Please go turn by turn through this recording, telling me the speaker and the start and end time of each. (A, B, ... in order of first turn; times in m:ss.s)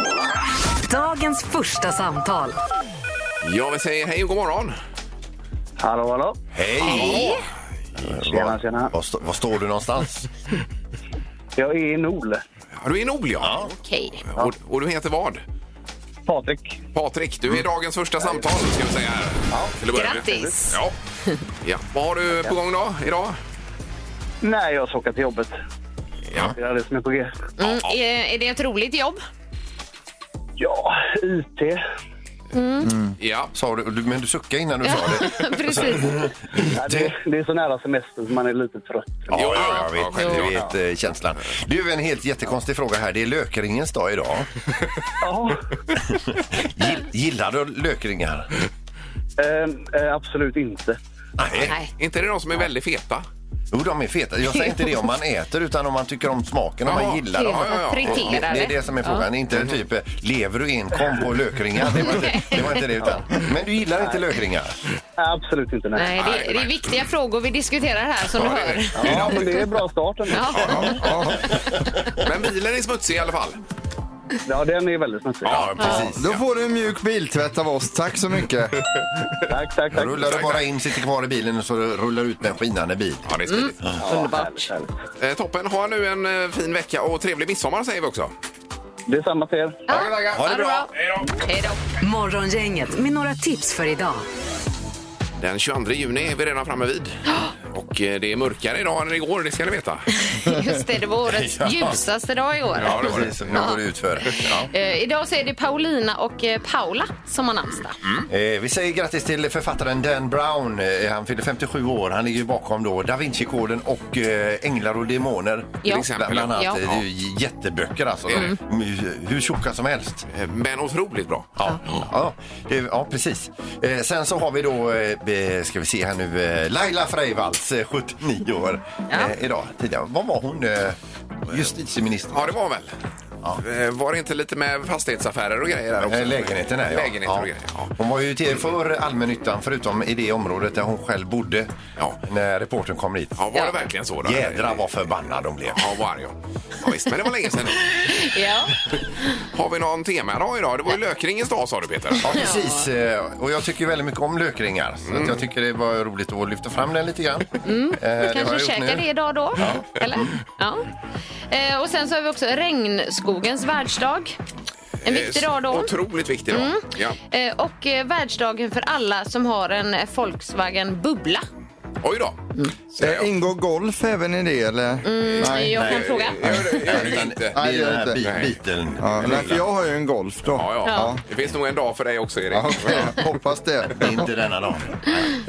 0:00.8-0:02.6 A
0:03.4-0:04.8 B
0:05.8-0:06.4 C
0:06.6-0:07.4 D
0:06.8-0:07.4 B
0:06.8-0:07.4 E
0:08.0-0:10.3 D
0:08.0-0:08.9 C
0:11.6-0:12.4 C
0:12.8-0:13.7 B
0:13.4-0:13.7 D
0:13.8-0:14.2 E
0:14.4-0:15.4 B
0:16.3-0:16.8 C
0:17.0-0:20.9 B
0:19.5-0:19.8 C
0:19.9-0:20.8 E
0:21.6-0:23.4 B
0:24.4-0:25.5 C
0:26.5-0:27.3 C
0:27.6-0:29.2 E
0:27.6-0:27.9 B
0:30.6-0:31.8 C
0:32.5-0:32.9 E
0:32.9-0:33.2 F
0:33.2-0:33.5 B
0:33.5-0:37.1 D
0:34.8-0:36.3 E
0:36.7-0:39.6 C
0:39.3-0:40.6 B
0:39.3-0:44.5 D
0:40.2-0:40.5 E
0:45.2-0:45.6 C
0:46.1-0:48.5 D
0:49.4-0:51.0 C
0:51.4-0:51.7 D
0:52.0-0:53.2 B
0:53.7-1:04.8 D
0:56.8-0:58.5 B
0:57.3-0:59.3 E
1:01.9-1:02.9 E
1:04.0-1:04.2 C
1:05.2-1:06.2 C
1:06.0-1:09.5 E
1:06.2-1:06.7 B
1:08.3-1:09.2 B
1:09.0-1:10.8 C
1:09.1-1:09.4 D
1:10.3-1:11.1 E
1:10.7-1:11.6 F
1:12.2-1:13.6 B
1:14.5-1:15.5 C
1:15.4-1:16.3 D
1:15.4-1:16.4 B
1:15.8-1:16.0 E
1:15.9-1:18.8 F
1:19.5-1:20.3 C
1:19.9-1:23.3 D
1:20.2-1:20.6 B
1:23.3-1:23.8 B
1:23.5-1:24.7 E
1:24.0-1:24.9 C
1:25.2-1:28.3 B
1:29.1-1:29.8 C
1:29.9-1:30.9 E
1:29.9-1:31.3 B
1:30.2-1:30.6 D
1:31.5-1:31.8 E
1:32.0-1:34.2 A
1:35.4-1:37.2 B
1:37.7-1:40.1 B
1:40.2-1:48.0 E
1:41.3-1:42.0 D
1:42.8-1:43.6 B
1:42.8-1:44.7 D
1:48.3-2:00.3 D
1:55.8-1:56.8 E
1:55.9-1:57.0 B
2:00.3-2:02.1 B
2:01.6-2:12.6 D
2:12.3-2:12.9 B
2:13.6-2:17.9 B
2:16.0-2:21.7 D
2:22.2-2:23.4 D
2:23.4-2:24.9 B
2:24.2-2:26.0 D
2:25.7-2:28.1 B
2:27.9-2:29.4 E
2:29.5-2:32.3 B
2:32.2-2:39.0 D
2:32.3-2:32.8 E
2:35.1-2:35.4 B
2:37.6-2:40.9 E
2:39.6-2:40.3 D
2:41.5-2:44.4 E
2:45.0-2:47.2 B
2:45.0-2:45.9 E
2:46.5-2:51.4 E
2:52.0-2:52.4 B
2:52.9-2:53.3 B
2:53.0-2:55.9 F
2:55.0-2:56.4 E
2:55.7-2:59.6 D
2:55.9-2:57.6 B
2:56.9-2:58.2 F
2:58.2-2:58.5 B
2:59.0-3:01.2 F
3:00.5-3:03.2 B
3:00.8-3:01.1 E
3:02.5-3:04.3 F
3:03.9-3:05.4 D